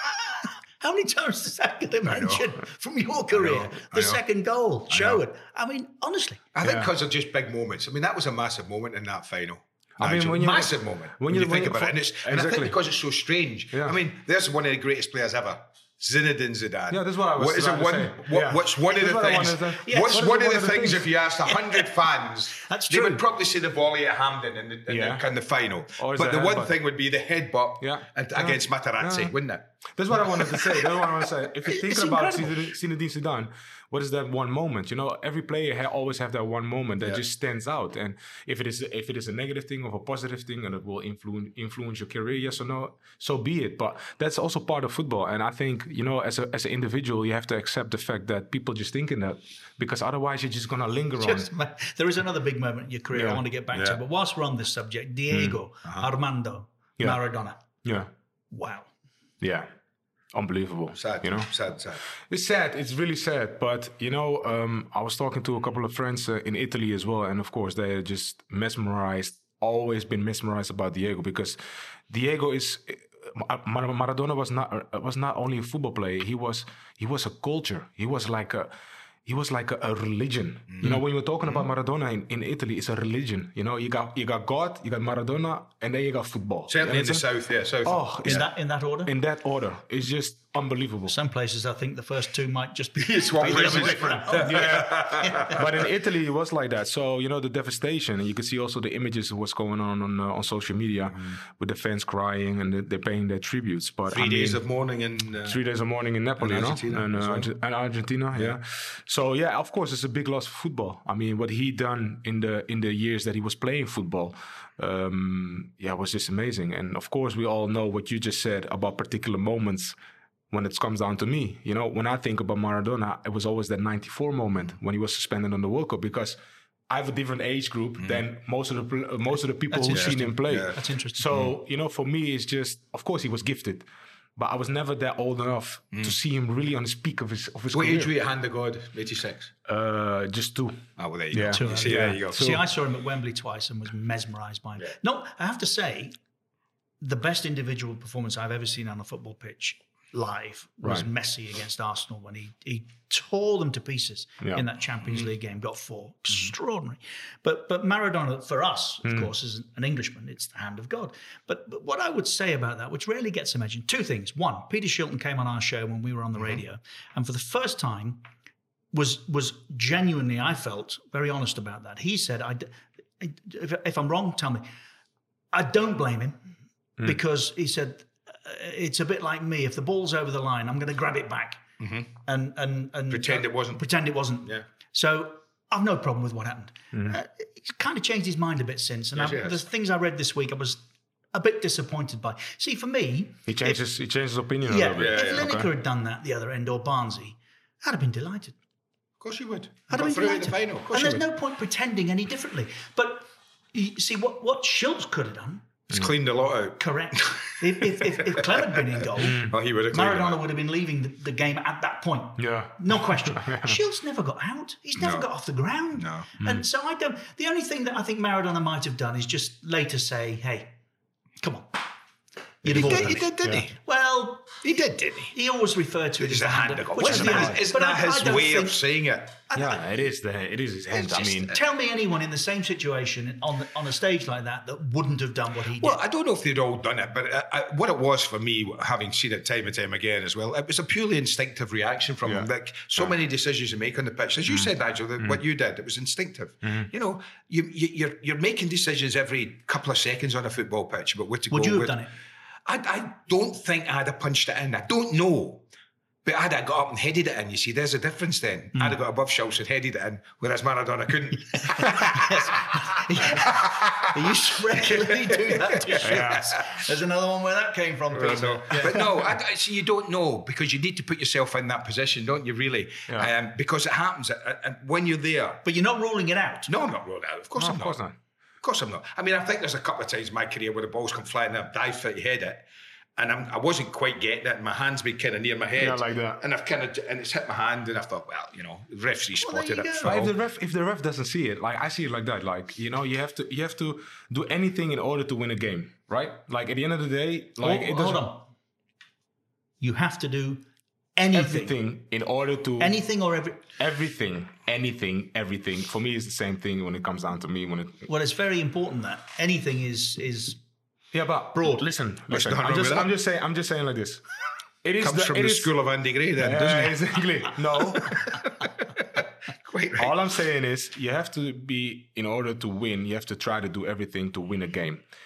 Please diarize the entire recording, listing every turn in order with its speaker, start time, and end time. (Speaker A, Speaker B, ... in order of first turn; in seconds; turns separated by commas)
Speaker A: 0.2-6.4, Speaker B: 2.0-2.5, Speaker B: 3.3-4.2, Speaker B: 4.9-5.2, Speaker B: 6.5-29.7, Speaker C: 6.6-6.9, Speaker C: 10.0-12.8, Speaker C: 13.7-14.0, Speaker C: 16.9-21.1, Speaker A: 19.7-20.3, Speaker A: 21.4-21.9, Speaker A: 22.6-23.2, Speaker C: 24.9-25.3, Speaker C: 26.0-26.8, Speaker C: 27.8-51.5, Speaker A: 31.7-32.7, Speaker A: 51.2-57.6, Speaker C: 53.1-53.4, Speaker B: 53.7-54.0, Speaker C: 55.3-55.6, Speaker C: 57.8-58.1, Speaker A: 58.5-58.9, Speaker C: 59.4-59.7, Speaker C: 60.3-61.5, Speaker B: 61.0-62.0, Speaker C: 62.3-71.6, Speaker C: 72.1-78.7, Speaker C: 79.2-87.2, Speaker B: 80.7-81.6, Speaker B: 86.7-88.5, Speaker C: 87.8-88.5, Speaker A: 88.2-89.1, Speaker C: 89.0-91.1, Speaker A: 91.1-95.6, Speaker B: 93.0-95.6, Speaker C: 93.4-104.6, Speaker B: 104.1-105.6, Speaker C: 105.5-119.9, Speaker B: 106.4-107.5, Speaker C: 120.5-126.4, Speaker C: 126.9-133.8, Speaker A: 129.7-131.2, Speaker B: 129.9-130.8, Speaker C: 134.4-138.1, Speaker B: 137.7-139.5, Speaker C: 139.7-140.8, Speaker B: 141.0-142.4, Speaker C: 141.3-142.7, Speaker A: 141.5-146.2, Speaker A: 147.0-168.2, Speaker C: 159.0-159.3, Speaker A: 168.9-174.7, Speaker A: 175.5-176.5, Speaker A: 177.0-181.6, Speaker B: 181.8-182.1, Speaker A: 182.2-190.8, Speaker B: 183.1-183.9, Speaker C: 186.9-187.2, Speaker B: 189.2-189.6, Speaker A: 191.3-193.8, Speaker C: 193.5-195.7, Speaker A: 194.7-198.5, Speaker B: 195.0-195.5, Speaker B: 199.2-201.2, Speaker A: 199.9-205.6, Speaker B: 205.9-207.4, Speaker A: 206.8-209.4, Speaker C: 209.2-209.6, Speaker B: 209.4-210.4, Speaker A: 209.9-220.7, Speaker C: 212.4-213.8, Speaker B: 215.0-215.3, Speaker B: 215.9-216.3, Speaker C: 216.4-216.6, Speaker A: 221.4-221.8, Speaker A: 222.6-224.6, Speaker B: 222.6-223.8, Speaker C: 222.7-223.7, Speaker B: 224.6-225.3, Speaker A: 225.3-228.8, Speaker B: 226.2-229.4, Speaker C: 227.0-227.6, Speaker A: 229.5-229.8, Speaker C: 229.5-231.5, Speaker A: 230.9-236.0, Speaker B: 235.8-252.0, Speaker C: 242.2-243.1, Speaker C: 244.5-245.4, Speaker A: 251.5-252.1, Speaker B: 252.7-255.6, Speaker B: 256.2-264.1, Speaker A: 261.7-269.0, Speaker B: 264.9-266.6, Speaker C: 266.0-266.5, Speaker B: 268.1-275.6, Speaker A: 275.6-276.7, Speaker B: 276.7-278.0, Speaker C: 277.6-278.1, Speaker B: 278.6-282.6, Speaker B: 283.2-290.3, Speaker C: 285.8-286.4, Speaker A: 289.4-290.1, Speaker C: 290.0-298.2, Speaker A: 297.6-298.5, Speaker A: 299.8-300.6, Speaker A: 301.1-301.7, Speaker C: 301.3-303.0, Speaker A: 302.8-303.6, Speaker C: 303.8-308.1, Speaker A: 308.1-310.6, Speaker C: 311.1-314.2, Speaker A: 311.5-311.8, Speaker B: 312.3-313.1, Speaker C: 314.8-315.7, Speaker B: 315.0-316.9, Speaker C: 316.4-318.2, Speaker B: 318.0-320.1, Speaker C: 320.0-325.0